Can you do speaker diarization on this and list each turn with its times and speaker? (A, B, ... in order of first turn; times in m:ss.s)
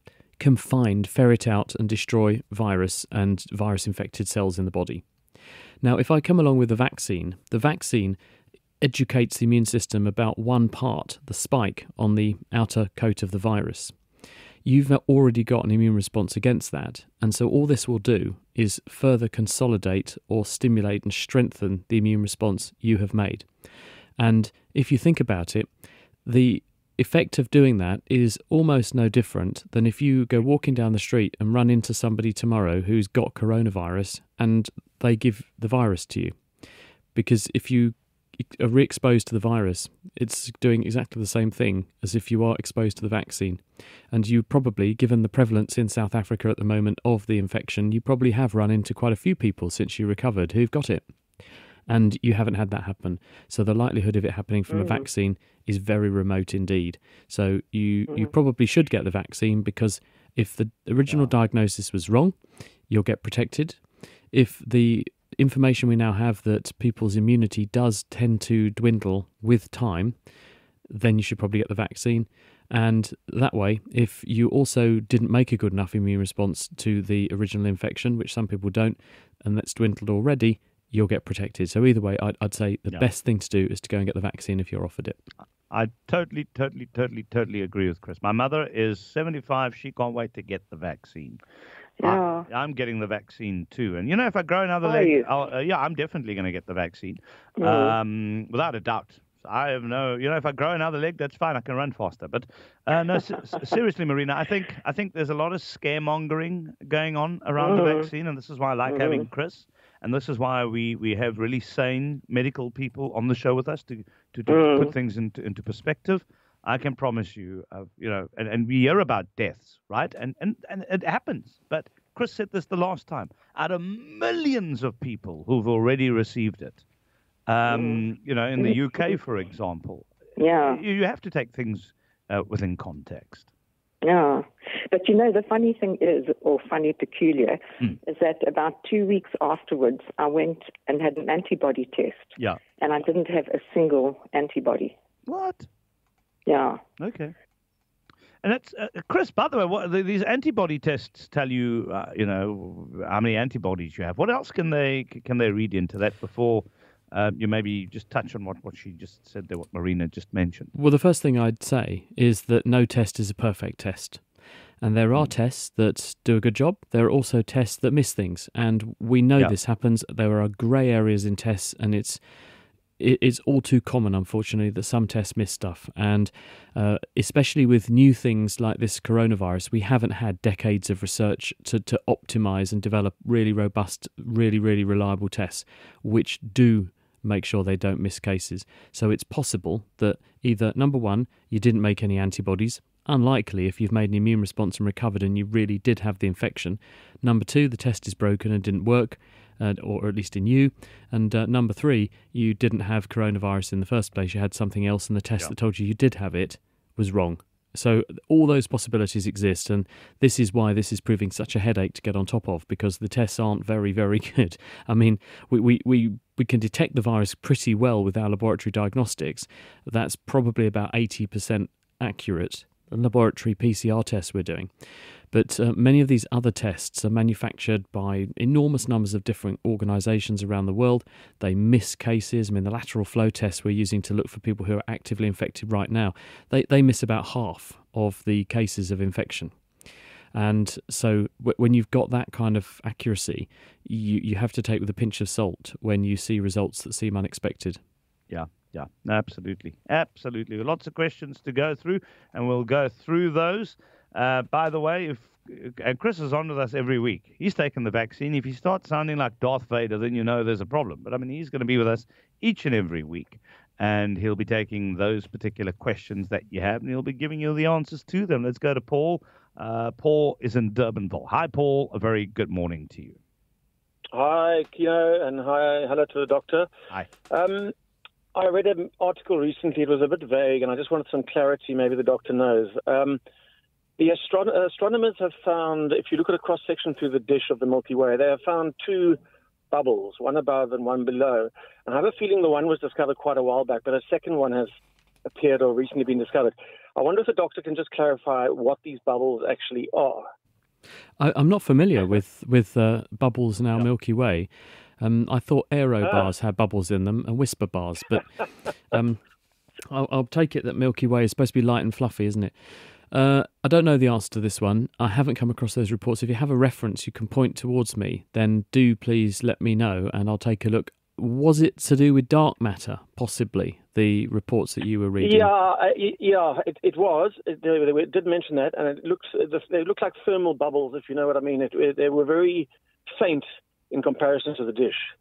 0:00.4-0:05.0 A
0:05.8-0:08.2 A
0:08.8-0:14.0 A
0:14.6-0:23.5 A
0:24.2-0:25.7 A
0:26.2-0:36.4 A
0:37.2-0:51.1 A
0:51.9-1:02.4 A
1:02.9-1:03.8 A
1:04.3-1:10.2 A
1:10.9-1:25.2 A
1:25.7-1:31.4 B
1:32.0-1:32.5 C
1:32.0-2:06.8 B
1:34.8-1:35.3 C
1:37.6-1:38.0 C
1:47.6-1:48.1 C
1:48.9-1:49.3 C
1:54.5-1:54.9 C
2:07.5-2:10.1 B
2:07.7-2:08.0 C
2:10.4-2:10.8 C
2:10.6-2:13.5 B
2:14.0-2:25.0 C
2:25.3-2:25.7 B
2:26.5-2:26.8 C
2:27.0-2:27.3 B
2:28.4-2:40.7 B
2:40.7-2:44.2 A
2:44.8-2:52.2 A
2:53.0-3:44.7 A
3:45.3-3:59.6 A
4:00.3-4:07.8 A
4:08.3-4:33.2 B
4:34.1-4:36.7 D
4:37.3-4:37.7 D
4:38.3-4:43.2 D
4:44.0-4:49.2 D
4:49.7-4:54.7 D
4:55.3-5:00.3 D
5:01.2-5:08.3 A
5:08.9-5:09.2 A
5:09.9-5:12.6 A
5:13.1-5:25.5 A
5:25.2-5:35.1 D